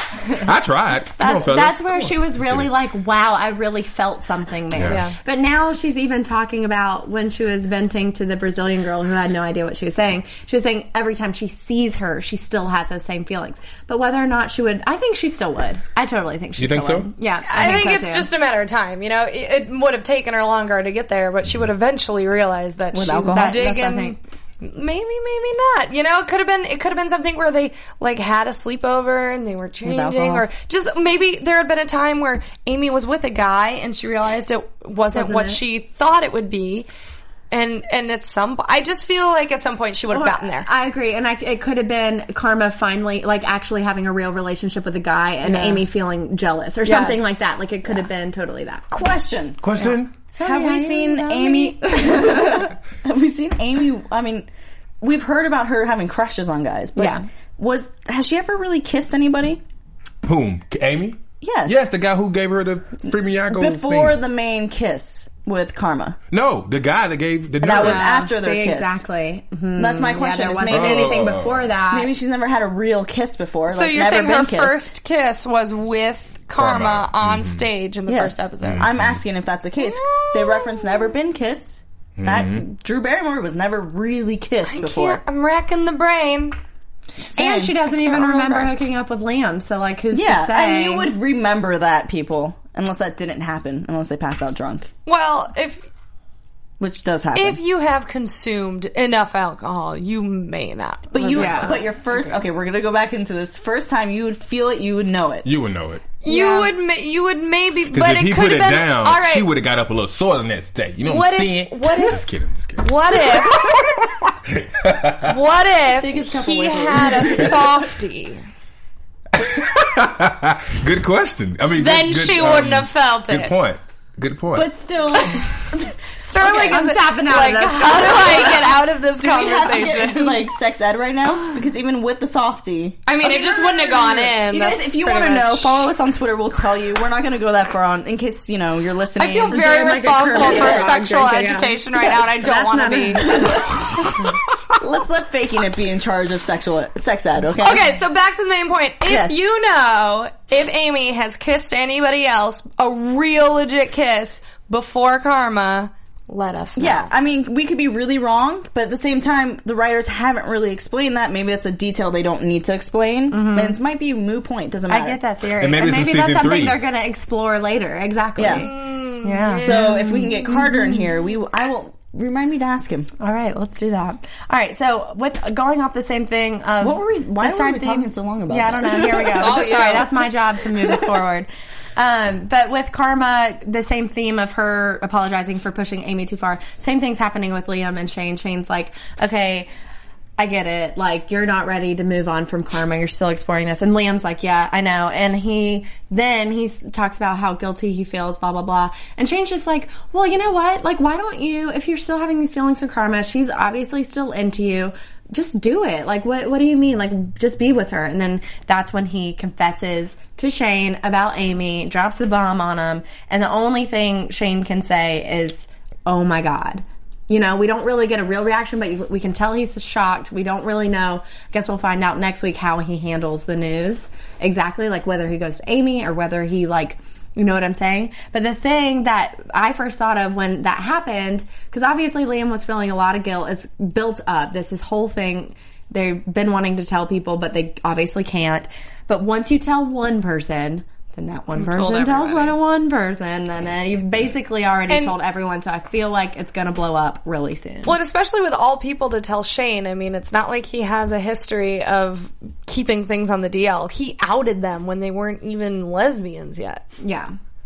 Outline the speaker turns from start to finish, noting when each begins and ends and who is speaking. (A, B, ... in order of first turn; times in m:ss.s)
0:00.4-0:02.7 A
0:01.2-0:18.3 B
0:04.7-0:05.0 A
0:04.8-0:05.2 C
0:16.6-0:17.1 A
0:17.4-0:36.9 C
0:22.9-0:23.6 D
0:23.3-0:24.2 B
0:29.8-0:30.4 D
0:35.1-0:35.6 B
0:37.5-0:40.7 C
0:40.1-0:48.9 B
0:45.5-0:45.8 C
0:46.8-0:47.4 C
0:48.9-0:49.6 D
0:49.6-0:50.1 A
0:49.8-0:52.6 B
0:50.4-0:54.5 D
0:55.0-0:59.6 D
0:57.0-0:57.2 B
1:00.2-1:04.2 A
1:01.4-1:01.8 D
1:03.5-1:06.2 D
1:06.3-1:08.1 A
1:07.6-1:09.0 D
1:07.8-1:12.1 B
1:09.8-1:11.2 D
1:10.7-1:11.7 A
1:11.9-1:14.8 D
1:13.7-1:18.9 C
1:16.6-1:17.6 A
1:18.1-1:25.2 D
1:18.6-1:19.2 A
1:19.8-1:21.1 C
1:22.2-1:22.6 A
1:24.6-1:26.6 C
1:27.2-1:28.7 D
1:27.3-1:31.1 B
1:30.1-1:34.9 D
1:35.0-1:35.8 C
1:36.8-1:37.6 D
1:37.3-1:42.4 C
1:41.1-1:45.5 D
1:41.3-1:41.8 B
1:45.4-1:46.0 A
1:46.2-1:49.5 C
1:46.2-1:46.7 B
1:47.9-1:55.4 A
1:51.0-1:52.2 C
1:52.8-1:53.7 C
1:55.2-1:58.4 C
1:56.0-1:57.9 D
1:59.3-2:04.7 A
2:01.8-2:03.5 C
2:04.5-2:05.8 D
2:06.2-2:10.5 C
2:06.4-2:08.6 B
2:08.1-2:20.9 D
2:13.0-2:15.9 C
2:19.2-2:23.7 C
2:19.5-2:24.3 B
2:23.3-2:24.2 D
2:24.8-2:27.9 D
2:27.6-2:37.1 C
2:29.0-2:29.4 D
2:36.8-2:45.2 D
2:43.3-2:43.8 B
2:44.9-2:51.0 B
2:45.6-2:46.8 A
2:48.4-2:48.7 D
2:48.5-2:50.3 C
2:49.6-2:53.1 D
2:53.2-3:09.7 B
2:56.8-2:59.5 D
2:59.3-3:00.2 C
3:10.4-4:08.0 B
4:01.6-4:02.6 C
4:07.8-4:16.8 C
4:17.0-4:17.3 B